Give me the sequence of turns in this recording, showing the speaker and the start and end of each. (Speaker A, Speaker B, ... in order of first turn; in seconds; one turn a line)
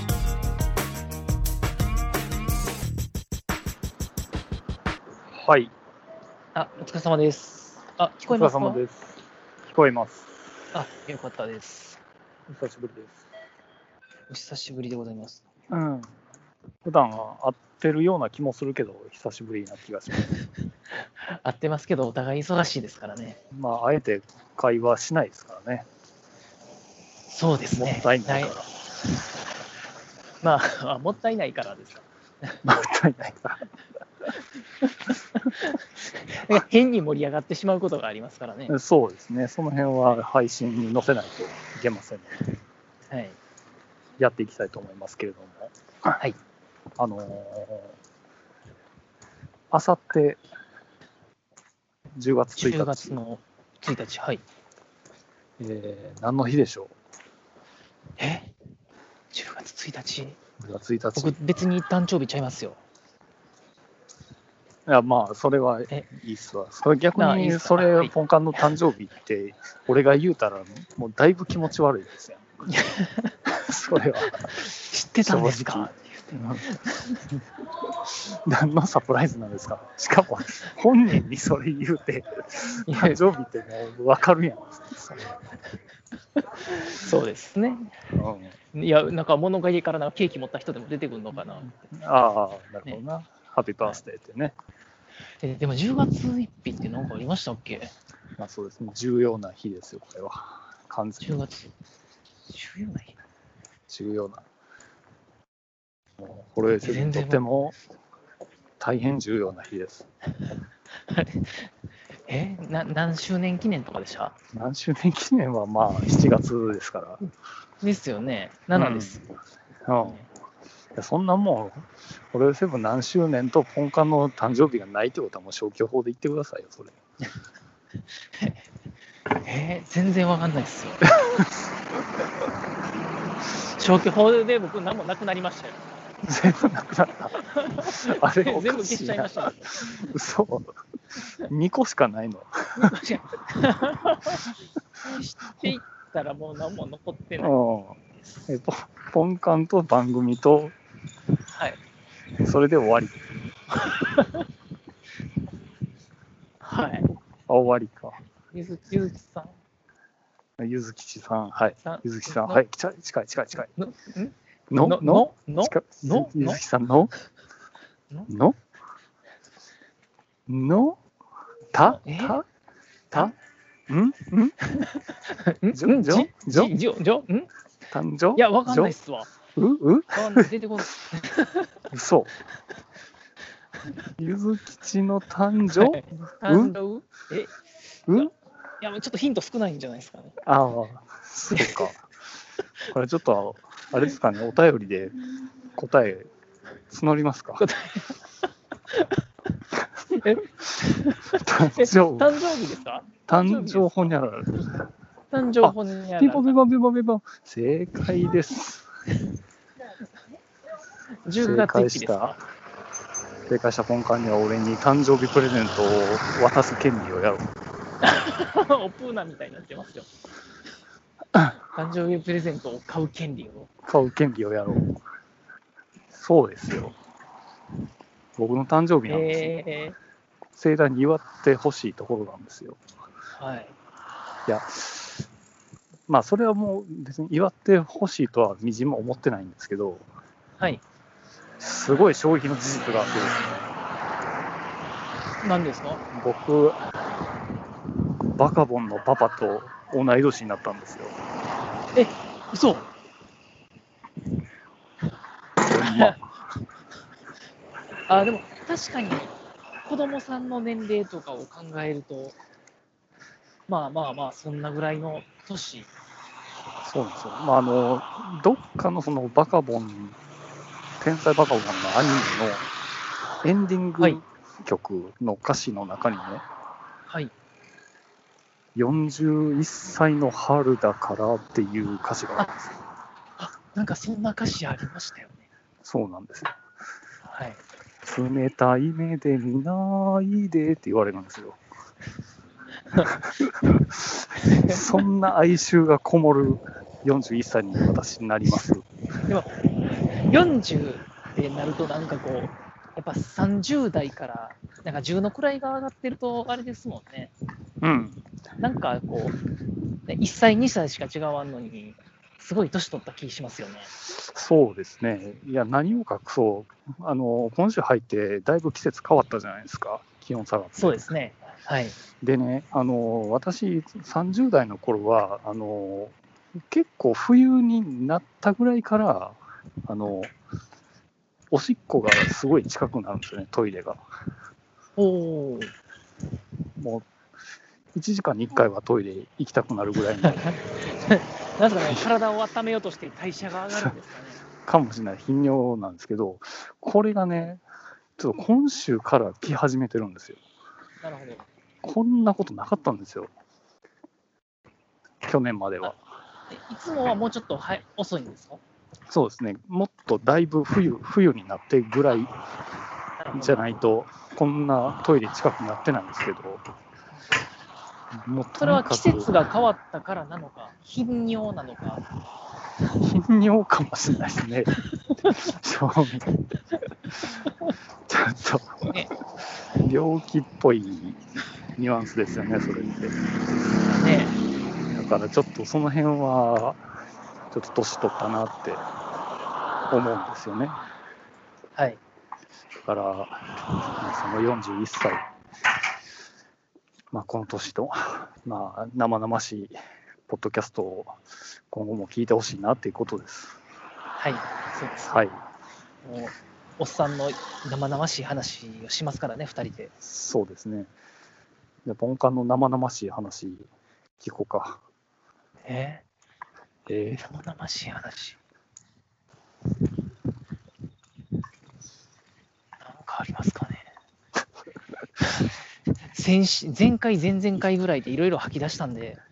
Speaker A: 5.3-5.7
Speaker B: 6.5-8.8
Speaker A: 8.3-9.1
Speaker A: 9.6-10.3
Speaker B: 10.7-12.0
Speaker A: 12.5-13.2
Speaker B: 14.3-15.4
Speaker A: 15.7-16.1
Speaker A: 16.8-20.3
Speaker B: 21.0-23.4
Speaker A: 23.5-25.9
Speaker B: 27.3-28.6
Speaker A: 27.8-28.7
Speaker B: 30.4-32.6
Speaker A: 32.6-33.6
Speaker B: 34.8-38.7
Speaker A: 38.7-42.5
Speaker B: 43.1-43.4
Speaker A: 44.2-45.7
Speaker A: 47.0-47.9
Speaker A: 49.7-50.4
Speaker A: 52.1-53.2
Speaker B: 52.6-54.4
Speaker A: 55.6-56.9
Speaker B: 58.2-58.5
Speaker B: 59.3-60.4
Speaker A: 60.6-61.3
Speaker B: 61.1-62.8
Speaker A: 64.8-72.5
Speaker B: 67.2-68.1
Speaker B: 72.7-73.3
Speaker A: 73.5-74.5
Speaker B: 74.3-77.2
Speaker A: 75.2-76.6
Speaker A: 78.1-85.2
Speaker B: 82.8-83.2
Speaker B: 86.4-87.9
Speaker A: 88.1-88.5
Speaker B: 88.7-91.7
Speaker A: 91.6-94.5
Speaker B: 95.4-97.9
Speaker A: 98.4-101.4
Speaker B: 101.2-101.7
Speaker B: 102.5-103.2
Speaker A: 103.9-104.4
Speaker A: 106.2-107.8
Speaker B: 106.8-107.4
Speaker A: 108.8-110.0
Speaker B: 111.0-111.7
Speaker B: 112.3-114.3
Speaker A: 114.5-117.2
Speaker B: 117.8-119.2
Speaker A: 118.7-119.2
Speaker A: 119.8-120.2
Speaker B: 120.0-120.3
Speaker A: 121.0-126.9
Speaker B: 128.3-128.6
Speaker B: 129.4-131.1
Speaker B: 133.6-135.8
Speaker A: 136.2-140.7
Speaker B: 137.4-139.8
Speaker A: 141.5-142.9
Speaker B: 142.8-144.5
Speaker B: 145.0-147.5
Speaker A: 147.4-150.7
Speaker B: 151.5-151.8
Speaker A: 152.4-153.2
Speaker B: 153.7-154.4
Speaker B: 156.6-157.1
Speaker A: 157.5-158.2
Speaker B: 158.5-159.5
Speaker A: 160.6-163.7
Speaker B: 161.8-162.6
Speaker B: 163.8-166.6
Speaker A: 164.7-167.1
Speaker A: 168.3-168.6
Speaker A: 170.5-171.0
Speaker A: 171.7-172.4
Speaker B: 171.8-172.4
Speaker A: 173.9-174.6
Speaker B: 174.7-177.5
Speaker A: 175.7-176.7
Speaker A: 177.9-178.9
Speaker B: 178.3-179.3
Speaker A: 179.6-180.5
Speaker B: 180.1-181.8
Speaker A: 181.9-182.3
Speaker A: 184.2-186.8
Speaker B: 185.8-187.5
Speaker B: 188.1-190.4
Speaker A: 190.4-192.0
Speaker B: 191.5-191.9
Speaker A: 192.9-195.2
Speaker A: 195.7-196.3
Speaker A: 196.9-197.7
Speaker B: 197.6-198.1
Speaker B: 198.9-199.2
Speaker A: 199.8-200.4
Speaker B: 200.1-204.1
Speaker A: 201.3-202.3
Speaker A: 203.3-204.6
Speaker B: 205.3-206.6
Speaker A: 205.6-208.8
Speaker B: 211.2-212.4
Speaker A: 211.4-212.4
Speaker A: 213.5-217.4
Speaker B: 218.0-220.1
Speaker B: 221.7-223.7
Speaker A: 223.8-225.0
Speaker A: 226.1-226.9
Speaker A: 228.4-229.5
Speaker B: 229.1-230.0
Speaker A: 230.6-232.8
Speaker B: 233.3-233.7
Speaker A: 234.4-235.2
Speaker A: 236.1-240.1
Speaker A: 241.6-243.6
Speaker B: 245.4-246.0
Speaker A: 246.1-246.8
Speaker A: 248.3-251.1
Speaker B: 251.9-252.9
Speaker A: 255.6-256.2
Speaker B: 255.7-256.2
Speaker B: 258.1-259.3
Speaker B: 259.8-262.4
Speaker B: 263.7-265.9
Speaker A: 266.8-270.2
Speaker A: 271.0-272.7
Speaker A: 273.4-276.4
Speaker B: 277.1-277.3
Speaker A: 278.7-282.7
Speaker B: 283.4-285.4
Speaker A: 285.8-286.5
Speaker B: 287.2-287.6
Speaker A: 288.0-291.6
Speaker A: 293.1-298.9
Speaker B: 294.5-294.8
Speaker B: 299.3-307.3
Speaker A: 307.8-308.2
Speaker B: 308.6-309.4
Speaker B: 310.1-313.9
Speaker A: 314.1-321.0
Speaker B: 320.8-322.0
Speaker A: 322.2-326.1
Speaker A: 326.7-330.3
Speaker A: 331.5-334.0
Speaker B: 335.0-335.7
Speaker A: 336.8-337.1
Speaker A: 337.9-340.6
Speaker B: 340.3-344.4
Speaker A: 344.6-347.6
Speaker A: 348.2-350.4
Speaker B: 351.0-351.4
Speaker A: 351.8-353.3
Speaker A: 355.2-356.0
Speaker B: 356.5-358.6
Speaker A: 359.1-362.3
Speaker B: 363.2-363.7
Speaker A: 363.3-366.6
Speaker A: 368.2-369.3
Speaker B: 368.6-372.0
Speaker A: 373.0-376.4
Speaker A: 378.1-378.9
Speaker A: 379.8-381.2
Speaker A: 381.8-384.0
Speaker B: 383.9-384.4
Speaker A: 384.9-386.8
Speaker A: 387.5-388.8
Speaker A: 389.9-390.8
Speaker A: 392.8-395.2
Speaker A: 397.1-399.8
Speaker A: 400.3-401.2
Speaker A: 401.7-403.6
Speaker B: 404.2-405.2
Speaker A: 405.0-405.4
Speaker B: 406.0-409.9
Speaker A: 410.0-410.9
Speaker A: 411.8-413.7
Speaker A: 414.2-414.8
Speaker B: 415.6-416.0
Speaker A: 416.9-417.2
Speaker B: 417.2-418.4
Speaker B: 422.8-423.9
Speaker B: 426.1-429.2